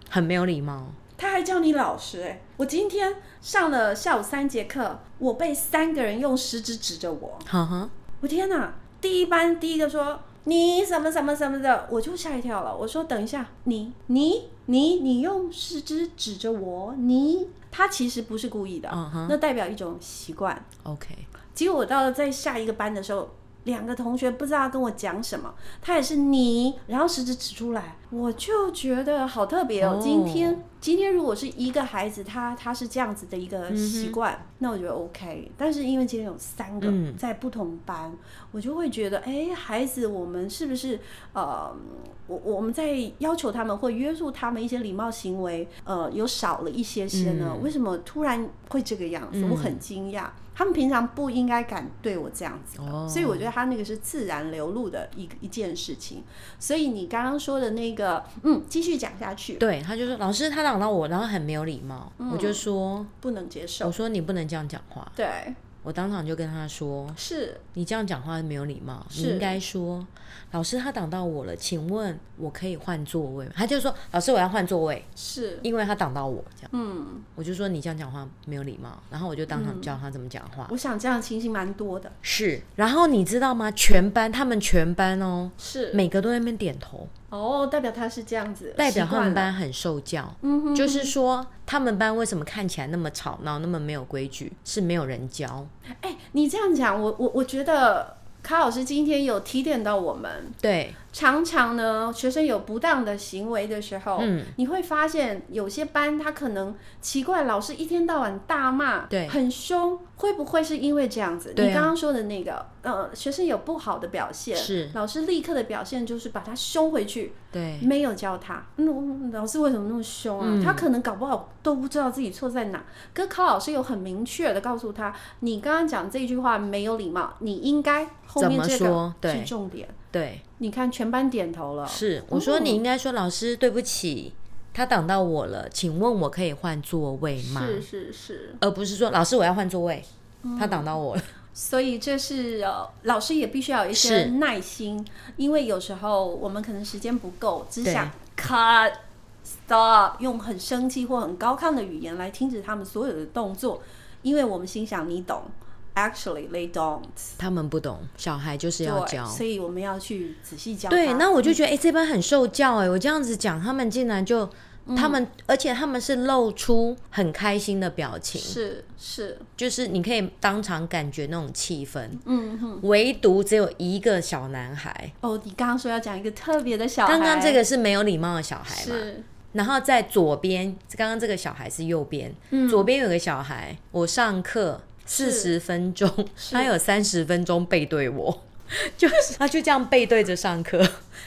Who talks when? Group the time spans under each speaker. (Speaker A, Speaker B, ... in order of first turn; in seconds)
Speaker A: 0.1-1.0, 7.5-7.9, 18.9-19.4, 20.8-21.3, 29.8-30.6, 33.7-34.2, 36.8-37.2, 47.1-47.7, 49.3-49.8, 52.8-53.5, 59.6-63.1, 63.8-65.1, 65.8-67.2, 67.7-75.1, 75.6-76.7, 77.4-80.7, 82.2-87.1, 88.8-95.7, 100.6-101.0, 104.2-104.5, 109.1-109.4, 111.6-111.9, 114.5-115.0, 117.5-117.9, 120.4-120.9, 128.4-129.5, 130.1-130.4, 131.9-137.9, 138.6-141.3, 143.9-144.3, 147.8-148.1, 157.4-159.4, 160.9-168.6, 169.6-172.2, 172.8-175.1, 177.1-191.0
Speaker B: 1.2-7.5, 8.2-20.7, 21.5-59.6, 62.2-62.6, 63.2-64.0, 65.2-65.6, 67.2-67.6, 69.1-69.6, 75.2-75.7, 76.7-77.3, 79.5-80.0, 80.7-82.2, 85.6-86.0, 87.3-89.5, 90.4-91.1, 96.0-100.6, 101.1-130.0, 130.6-132.8, 137.4-138.6, 140.4-140.9, 141.5-149.0, 149.5-157.4, 158.8-161.6, 164.9-165.2, 168.3-169.5, 172.2-172.8, 175.2-177.6, 178.7-179.3, 182.5-182.9, 185.1-185.5, 186.4-186.7